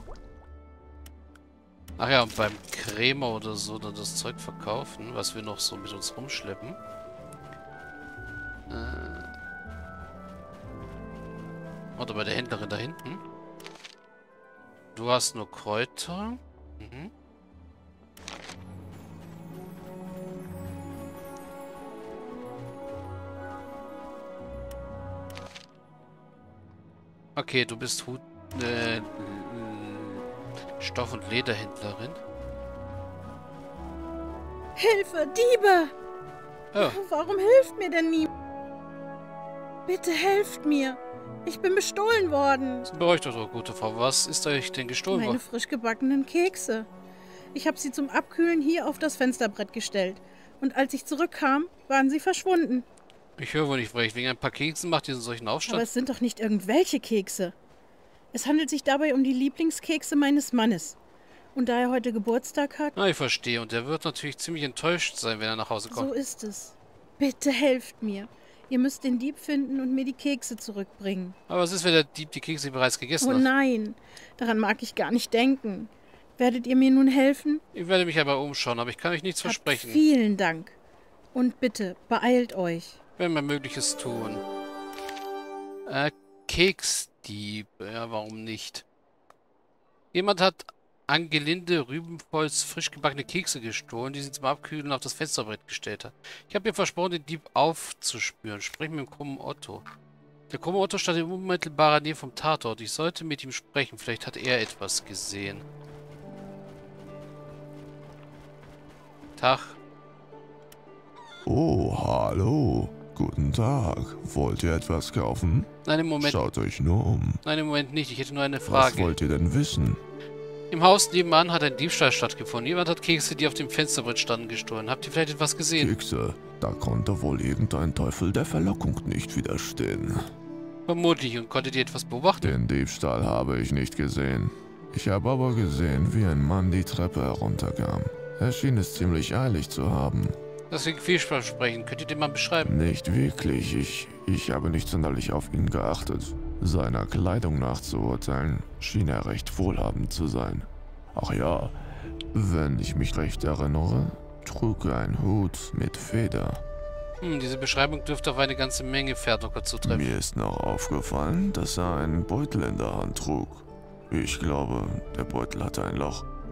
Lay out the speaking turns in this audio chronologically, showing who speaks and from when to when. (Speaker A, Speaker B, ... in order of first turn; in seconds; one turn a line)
Speaker A: 2.0-6.8
Speaker A: 8.7-9.3
Speaker A: 12.0-13.2
Speaker A: 14.9-17.1
Speaker A: 27.4-30.2
Speaker A: 30.8-32.2
Speaker B: 34.8-35.9
Speaker A: 36.7-37.0
Speaker B: 36.8-38.3
Speaker B: 39.9-42.9
Speaker A: 42.9-45.4
Speaker B: 45.1-46.9
Speaker B: 47.5-52.9
Speaker A: 53.4-55.9
Speaker B: 55.7-57.5
Speaker B: 58.3-61.0
Speaker B: 61.5-62.9
Speaker A: 62.9-66.1
Speaker B: 65.9-71.3
Speaker A: 71.5-73.5
Speaker B: 73.2-77.6
Speaker A: 77.7-80.0
Speaker B: 79.4-80.8
Speaker B: 81.3-83.0
Speaker A: 83.2-84.4
Speaker A: 85.9-88.8
Speaker A: 90.1-99.8
Speaker A: 100.5-105.6
Speaker A: 109.4-109.8
Speaker C: 111.5-117.4
Speaker A: 115.8-116.5
Speaker A: 117.4-119.2
Speaker C: 118.7-120.0
Speaker A: 120.7-126.0
Speaker C: 125.8-130.3
Speaker A: 130.9-132.6
Speaker C: 132.4-140.4
Speaker A: 140.7-142.8
Speaker C: 142.6-151.8
Speaker C: 152.3-156.6
Speaker A: 157.2-160.1
Speaker C: 159.8-166.3